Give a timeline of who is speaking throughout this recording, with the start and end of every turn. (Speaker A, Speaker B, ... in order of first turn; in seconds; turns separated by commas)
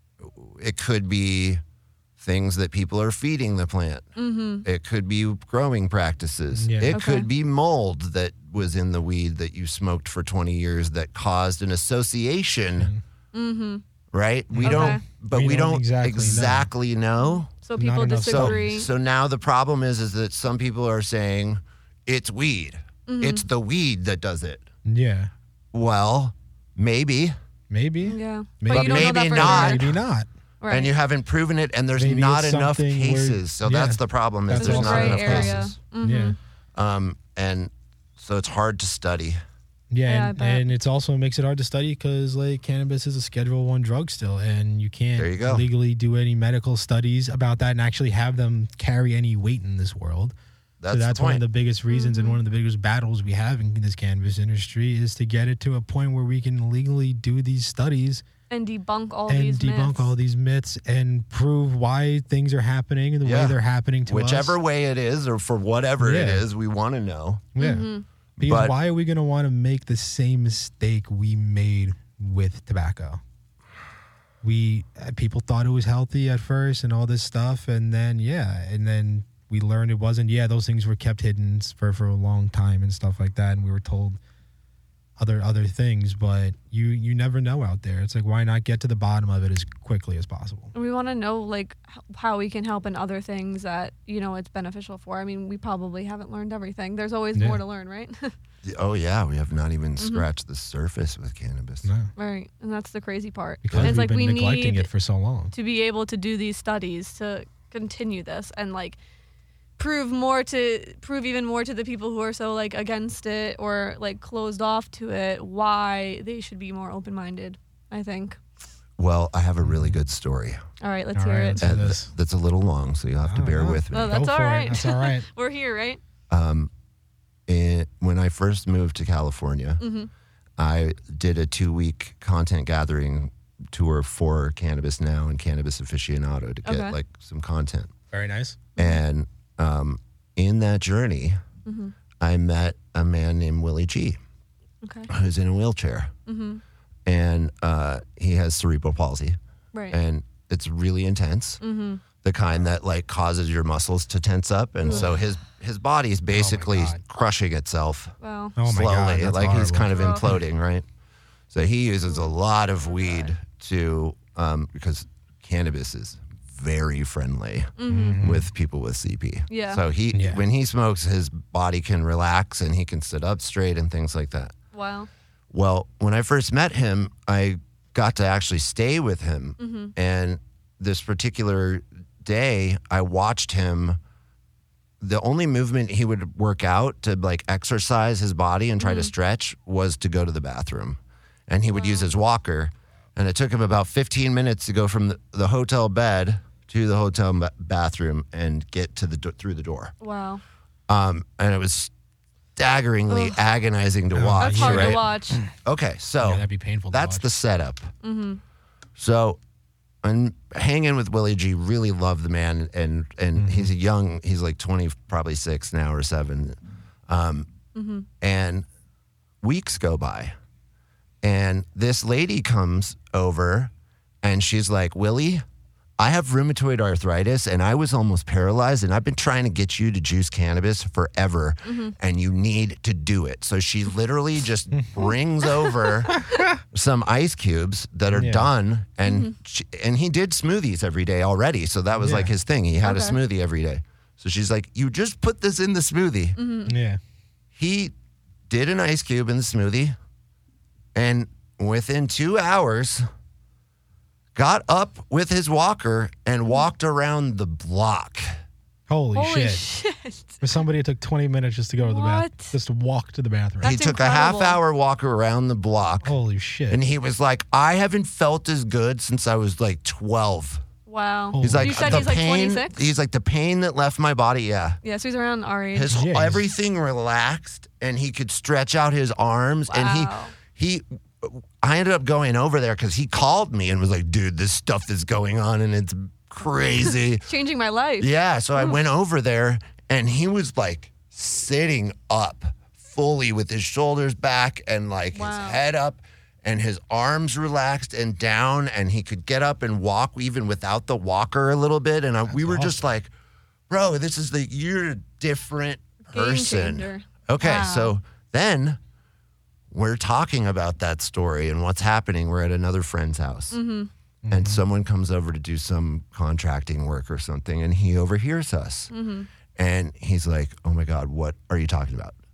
Speaker A: 0.2-1.6, Speaker A: 2.2-4.0, Speaker B: 4.2-4.7, Speaker A: 4.6-12.9, Speaker C: 6.5-7.0, Speaker B: 6.9-7.3, Speaker B: 13.3-13.8, Speaker A: 14.1-17.5, Speaker C: 14.5-16.7, Speaker B: 14.7-15.0, Speaker B: 17.2-18.9, Speaker C: 17.8-18.7, Speaker A: 18.3-24.7, Speaker B: 23.1-23.5, Speaker C: 24.9-25.3, Speaker A: 25.7-27.4, Speaker C: 27.7-30.3, Speaker B: 28.0-29.9, Speaker A: 28.7-29.9, Speaker B: 30.6-30.9, Speaker A: 30.7-35.7, Speaker C: 32.0-36.4, Speaker B: 34.5-36.4, Speaker A: 36.8-39.4, Speaker C: 39.9-50.3, Speaker B: 40.1-40.7, Speaker A: 45.2-45.7, Speaker A: 50.8-51.4, Speaker C: 50.9-58.2, Speaker B: 51.9-52.4, Speaker B: 58.5-60.1, Speaker C: 59.3-64.6, Speaker A: 63.2-67.5, Speaker C: 66.0-66.5, Speaker C: 67.6-73.2, Speaker B: 67.6-68.0, Speaker A: 68.4-68.8, Speaker C: 74.4-84.2, Speaker C: 85.2-90.7, Speaker B: 90.7-98.3, Speaker C: 97.3-97.6, Speaker A: 98.6-101.9, Speaker B: 100.0-100.3, Speaker C: 101.8-102.1, Speaker B: 102.2-104.9, Speaker C: 103.6-105.5, Speaker B: 105.5-109.0, Speaker B: 109.8-118.4, Speaker A: 119.0-120.6, Speaker C: 119.6-120.0, Speaker B: 120.8-121.6, Speaker C: 121.2-122.1, Speaker A: 121.6-124.2, Speaker C: 123.2-125.3, Speaker B: 123.9-126.0, Speaker A: 126.3-126.7, Speaker A: 127.5-129.8, Speaker B: 129.8-130.1, Speaker A: 130.6-137.9, Speaker B: 136.7-137.0, Speaker C: 138.1-138.6, Speaker A: 138.8-141.4, Speaker B: 141.7-141.9, Speaker A: 142.2-144.2, Speaker B: 144.8-145.1, Speaker A: 145.1-146.1, Speaker B: 146.3-146.6, Speaker A: 147.1-149.4, Speaker B: 149.7-150.0, Speaker A: 149.9-151.6, Speaker B: 151.6-152.0, Speaker A: 152.2-160.8, Speaker B: 154.8-155.1, Speaker C: 156.3-157.0, Speaker B: 158.2-158.6, Speaker C: 158.6-160.4, Speaker B: 159.9-160.3, Speaker A: 161.5-174.5, Speaker B: 167.8-168.2, Speaker C: 167.9-168.5, Speaker B: 169.5-169.8, Speaker C: 170.1-170.4, Speaker B: 174.7-175.1, Speaker A: 175.5-184.0, Speaker B: 179.6-179.9, Speaker A: 185.0-199.9, Speaker B: 188.8-189.1, Speaker B: 191.7-192.1, Speaker B: 200.0-200.4, Speaker A: 200.9-201.9, Speaker A: 202.6-205.0, Speaker B: 203.1-203.4, Speaker C: 204.1-205.5, Speaker B: 204.4-205.4, Speaker A: 205.6-207.9, Speaker C: 206.2-207.3, Speaker B: 208.0-208.4, Speaker A: 209.0-209.4, Speaker A: 210.0-217.5, Speaker C: 213.4-213.7, Speaker B: 217.8-218.1, Speaker A: 218.2-218.7, Speaker A: 219.4-220.3, Speaker A: 221.2-225.4, Speaker A: 226.0-246.4, Speaker B: 231.7-231.9, Speaker B: 235.5-235.8, Speaker C: 236.1-236.6, Speaker C: 238.1-238.5, Speaker B: 239.1-239.3, Speaker C: 242.0-242.3, Speaker B: 242.8-243.2, Speaker B: 246.4-246.8, Speaker C: 246.7-247.0, Speaker A: 247.6-247.9, Speaker A: 248.5-249.9, Speaker A: 250.9-253.1, Speaker A: 254.3-258.3, Speaker C: 258.9-259.6, Speaker B: 259.1-260.4, Speaker C: 260.4-263.8, Speaker B: 261.8-262.5, Speaker B: 263.6-264.6, Speaker A: 263.6-266.1, Speaker C: 266.0-266.8, Speaker A: 266.7-270.6, Speaker B: 270.9-272.8, Speaker C: 271.3-272.1, Speaker A: 271.4-274.8, Speaker B: 274.8-275.9, Speaker A: 275.7-287.3, Speaker C: 275.9-276.4, Speaker B: 279.7-280.3, Speaker B: 287.2-288.8, Speaker A: 288.0-303.1, Speaker B: 295.1-295.6, Speaker C: 302.3-302.8, Speaker A: 303.7-308.8, Speaker B: 306.1-308.0, Speaker A: 309.7-313.6, Speaker B: 313.5-313.9, Speaker C: 314.2-314.6, Speaker A: 314.3-318.9, Speaker B: 318.9-319.3, Speaker A: 319.6-322.2